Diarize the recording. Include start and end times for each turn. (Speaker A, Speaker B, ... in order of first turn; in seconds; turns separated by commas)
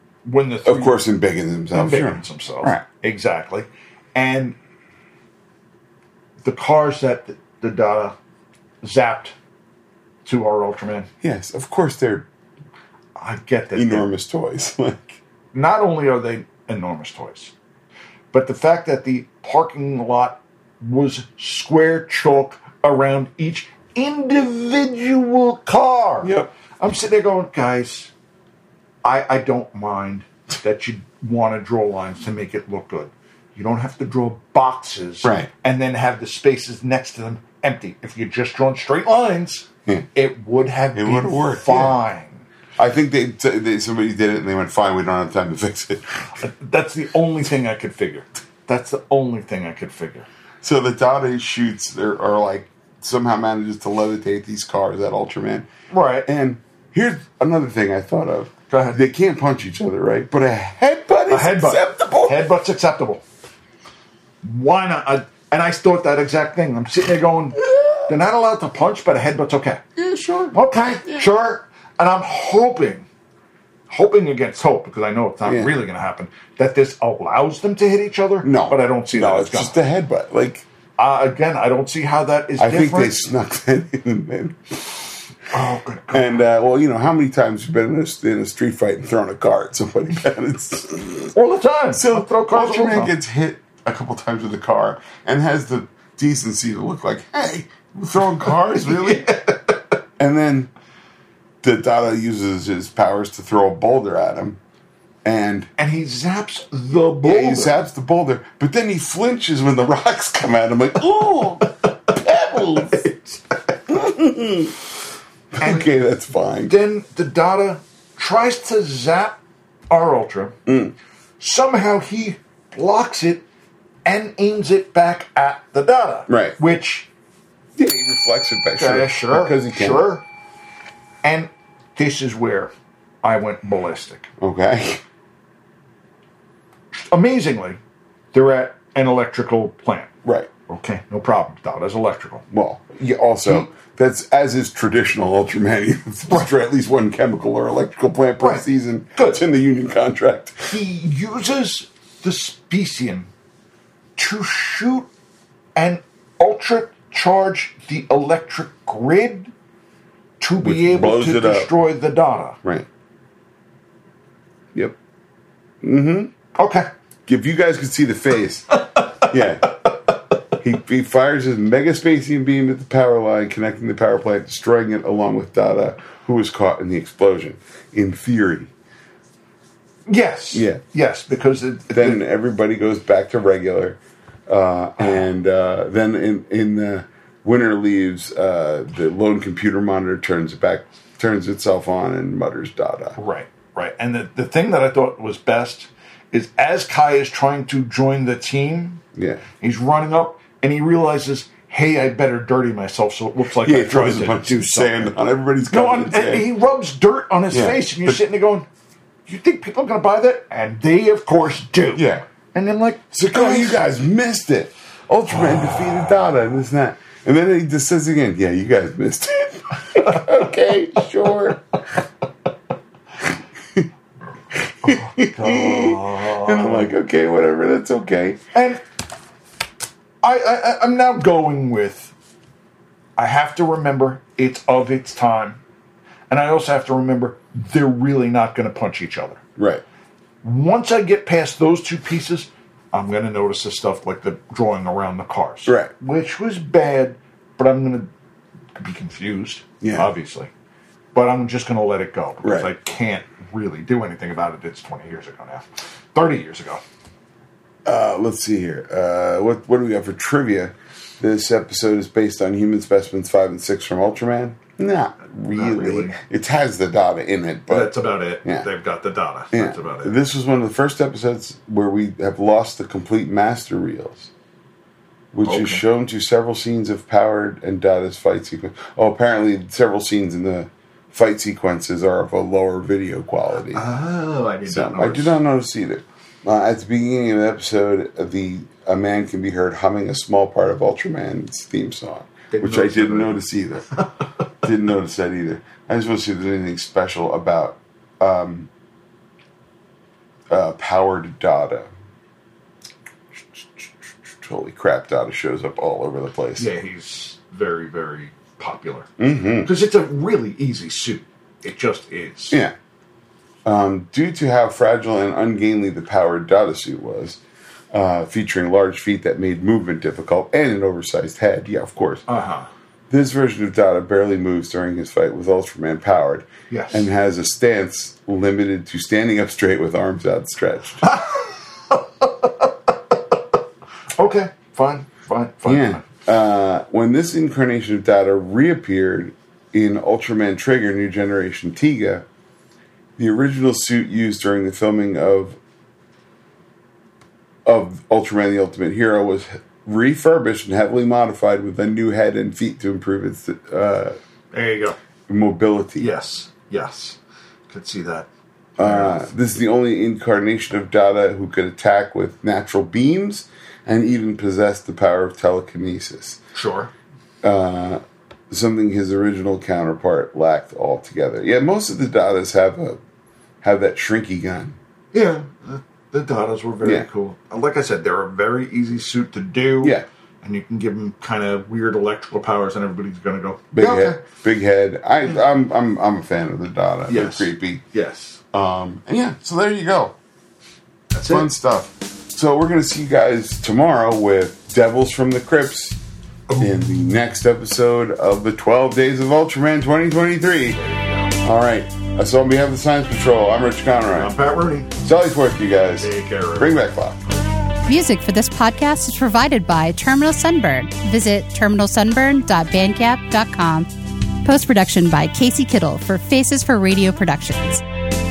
Speaker A: 0.2-1.0, Speaker B: 0.6-2.8, Speaker A: 1.7-4.6, Speaker A: 6.4-8.1, Speaker A: 8.8-9.3, Speaker A: 10.2-11.1, Speaker B: 11.2-12.3, Speaker A: 13.2-14.1, Speaker B: 13.7-15.2, Speaker A: 15.5-17.5, Speaker A: 18.3-28.1, Speaker B: 26.2-26.5, Speaker A: 29.0-42.5, Speaker B: 35.2-35.5, Speaker B: 40.9-42.0, Speaker B: 42.8-46.3, Speaker A: 46.4-50.3, Speaker B: 50.6-55.7, Speaker A: 55.9-56.3, Speaker B: 56.2-62.4, Speaker A: 58.7-59.0, Speaker A: 61.3-63.2, Speaker A: 64.4-69.8, Speaker B: 67.7-68.0, Speaker B: 70.0-71.3, Speaker A: 70.5-73.1, Speaker A: 73.9-79.8, Speaker B: 75.4-75.8, Speaker B: 78.4-80.7, Speaker A: 81.0-83.2, Speaker B: 82.6-85.0, Speaker A: 85.5-86.4, Speaker B: 86.1-91.3, Speaker A: 91.3-93.1, Speaker B: 91.9-99.5, Speaker A: 98.4-99.8, Speaker B: 100.2-100.7, Speaker B: 101.6-104.6, Speaker B: 105.2-105.7, Speaker A: 105.8-107.8, Speaker B: 107.2-113.0, Speaker A: 112.7-113.4, Speaker B: 113.9-114.8, Speaker B: 115.5-116.7, Speaker A: 115.6-115.9, Speaker A: 116.7-119.4, Speaker A: 119.9-120.5, Speaker B: 120.7-120.9, Speaker A: 121.4-123.4, Speaker A: 124.0-127.1, Speaker B: 126.3-126.6, Speaker B: 127.8-130.1, Speaker A: 128.8-130.2, Speaker A: 131.2-132.7, Speaker A: 133.2-134.3, Speaker B: 134.4-135.0, Speaker A: 136.9-137.8, Speaker A: 138.3-140.1, Speaker A: 140.7-142.4, Speaker B: 142.5-150.8, Speaker A: 148.4-149.4, Speaker A: 150.7-153.3, Speaker A: 154.2-155.1, Speaker A: 155.7-159.5, Speaker A: 160.4-162.6, Speaker B: 160.6-161.7, Speaker B: 165.8-166.3, Speaker A: 166.5-166.9, Speaker B: 167.3-169.7, Speaker B: 170.6-178.7, Speaker A: 180.1-182.2, Speaker B: 180.5-180.8, Speaker B: 181.9-193.2, Speaker A: 193.2-199.0, Speaker B: 199.1-199.4, Speaker A: 199.6-205.2, Speaker B: 203.5-206.5, Speaker A: 205.7-208.7, Speaker B: 207.5-208.2, Speaker A: 209.3-213.8, Speaker B: 211.9-212.2, Speaker B: 213.1-221.6, Speaker B: 224.5-228.4, Speaker A: 224.8-226.9, Speaker A: 228.5-228.8, Speaker A: 230.2-232.1, Speaker A: 233.2-235.6, Speaker A: 236.3-239.4, Speaker B: 239.6-239.8, Speaker A: 240.4-248.1, Speaker B: 245.7-245.9, Speaker A: 248.8-250.5, Speaker B: 249.8-250.1, Speaker A: 251.1-256.8, Speaker B: 252.4-252.7, Speaker B: 257.8-268.6, Speaker A: 265.5-266.2, Speaker A: 267.7-270.2, Speaker B: 269.5-274.3, Speaker B: 275.3-283.9, Speaker A: 275.4-275.8, Speaker A: 283.7-285.4, Speaker B: 284.7-293.9, Speaker A: 292.5-293.4, Speaker B: 294.6-298.7, Speaker B: 300.5-301.9, Speaker B: 303.5-306.7, Speaker A: 306.6-309.1, Speaker B: 309.2-309.7, Speaker A: 309.6-312.6, Speaker B: 313.6-317.4, Speaker B: 317.9-322.2, Speaker A: 322.3-322.7, Speaker B: 323.1-331.1, Speaker A: 326.7-327.1, Speaker A: 331.0-333.1, Speaker A: 334.2-336.0, Speaker B: 335.6-342.2, Speaker B: 343.2-345.6, Speaker B: 347.6-354.2, Speaker A: 354.5-355.0, Speaker B: 355.3-356.1, Speaker A: 356.0-357.2, Speaker A: 357.7-358.3, Speaker B: 358.8-366.4, Speaker A: 358.8-359.3, Speaker A: 366.5-366.9, Speaker B: 367.4-373.0, Speaker B: 373.6-374.8, Speaker A: 375.1-384.2, Speaker B: 376.8-377.1, Speaker B: 383.7-387.8, Speaker A: 387.1-388.4, Speaker B: 388.5-390.1, Speaker A: 391.1-391.5, Speaker B: 391.2-396.0, Speaker A: 396.5-397.0, Speaker B: 396.6-400.8, Speaker A: 400.7-401.3, Speaker B: 401.4-404.3, Speaker A: 404.1-404.9, Speaker B: 405.0-407.2, Speaker A: 406.0-406.8, Speaker C: 407.9-413.9, Speaker C: 414.4-417.8